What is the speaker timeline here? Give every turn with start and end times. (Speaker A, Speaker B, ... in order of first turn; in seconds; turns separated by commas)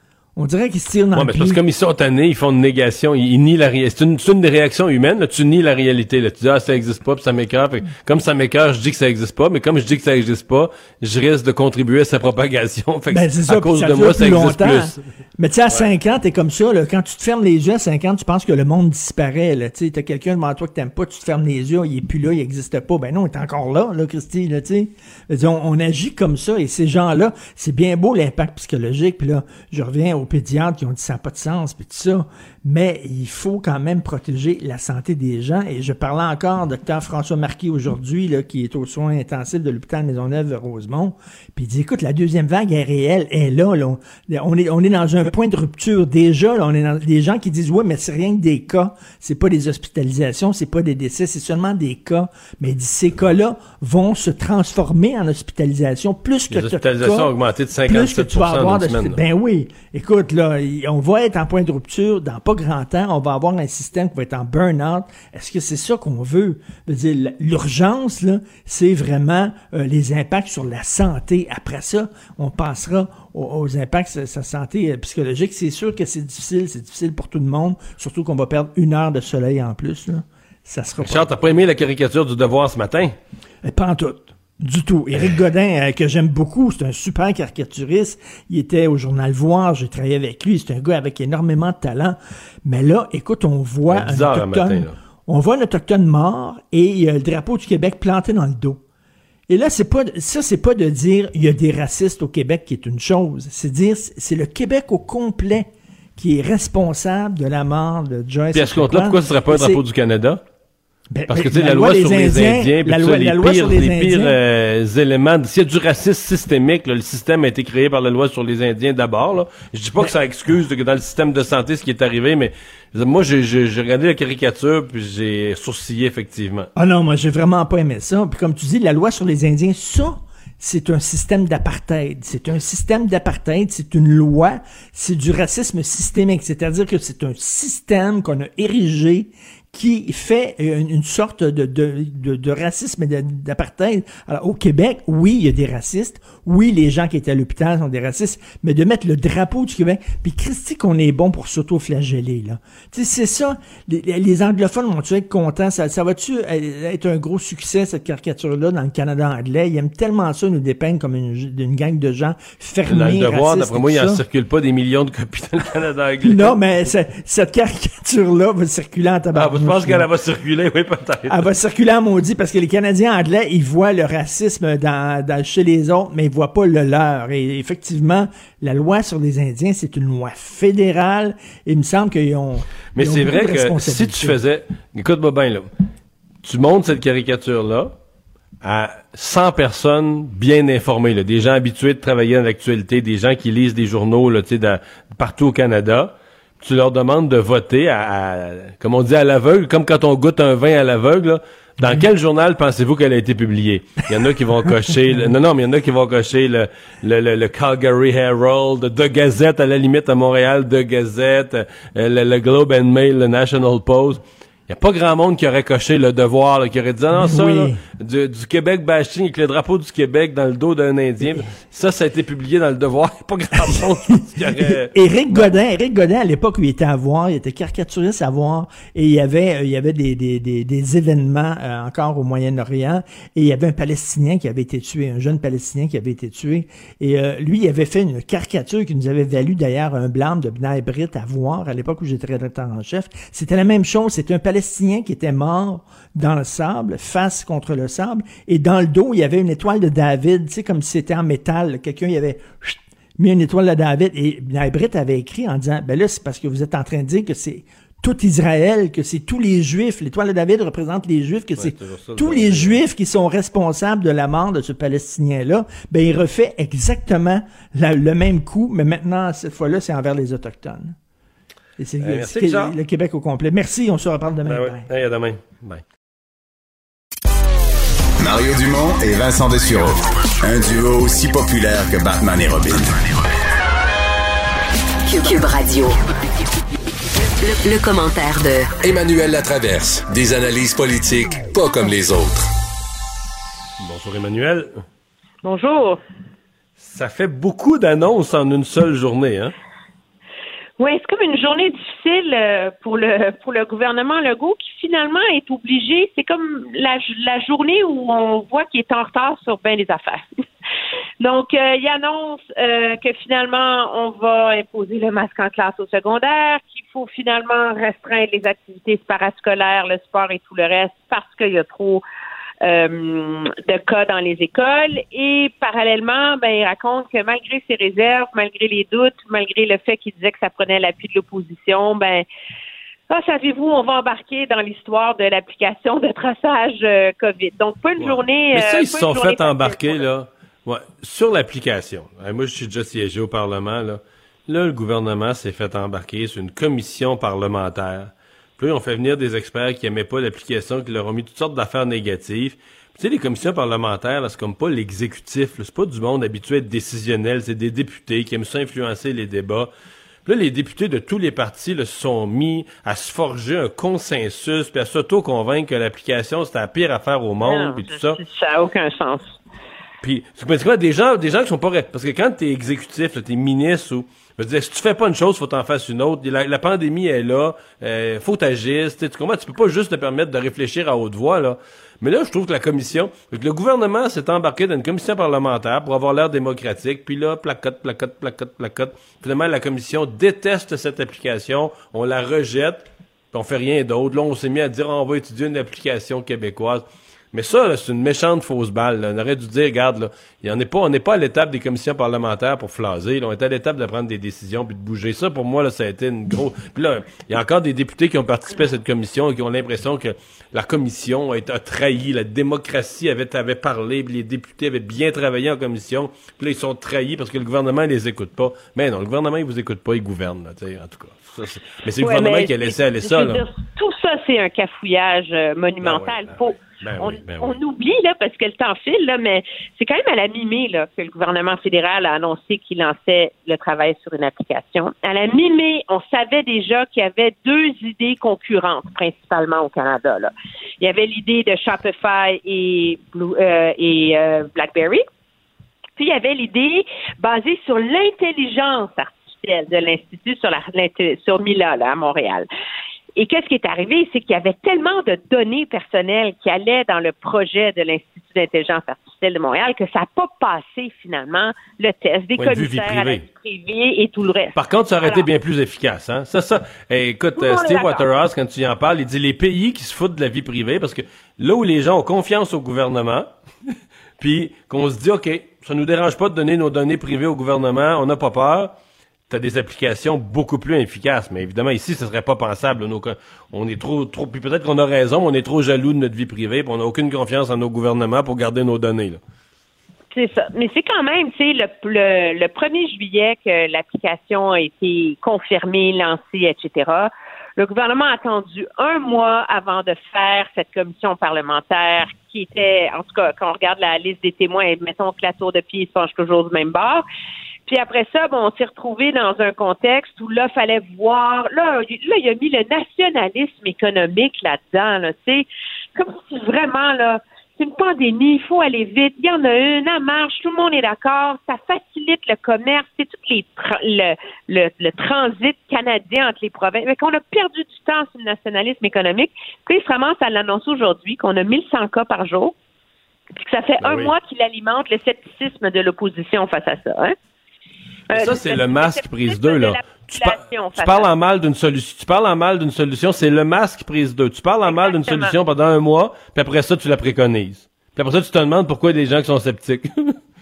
Speaker A: 0.3-1.6, Speaker B: 1.1-15.0, Speaker A: 13.1-57.3, Speaker B: 56.5-59.2, Speaker A: 57.9-81.3, Speaker B: 81.0-83.2, Speaker A: 83.7-98.8, Speaker B: 93.9-95.0, Speaker A: 99.5-109.8, Speaker B: 108.5-110.4, Speaker A: 111.1-114.3, Speaker B: 111.3-126.7, Speaker A: 126.8-164.2, Speaker B: 162.8-166.9, Speaker A: 166.2-170.1, Speaker B: 169.3-171.4, Speaker A: 171.3-184.4, Speaker B: 182.9-185.7, Speaker B: 186.4-187.9, Speaker B: 188.6-225.5, Speaker A: 217.1-217.8, Speaker A: 224.5-270.9, Speaker B: 261.6-262.8, Speaker A: 271.8-274.9, Speaker B: 272.0-272.8, Speaker B: 274.4-275.8, Speaker C: 278.2-283.1, Speaker D: 285.1-286.0, Speaker D: 287.4-288.7, Speaker E: 288.8-292.5, Speaker B: 293.8-294.8, Speaker F: 295.4-296.0, Speaker B: 296.8-299.5, Speaker F: 300.8-310.3, Speaker F: 311.2-322.0, Speaker F: 322.6-332.2, Speaker F: 333.1-340.1, Speaker B: 338.0-359.7, Speaker B: 360.2-368.2, Speaker F: 367.4-369.3, Speaker B: 370.0-423.4, Speaker F: 422.0-445.0, Speaker B: 425.8-427.6, Speaker F: 446.0-452.4, Speaker F: 453.2-465.3, Speaker B: 462.4-463.2, Speaker B: 464.5-473.3, Speaker F: 467.3-468.1, Speaker B: 474.2-478.7, Speaker B: 479.3-489.2, Speaker F: 490.1-507.0, Speaker F: 507.6-515.4, Speaker F: 516.0-532.5, Speaker F: 533.4-537.1, Speaker B: 533.8-534.1, Speaker F: 538.1-541.1, Speaker B: 538.1-550.2, Speaker F: 544.6-545.4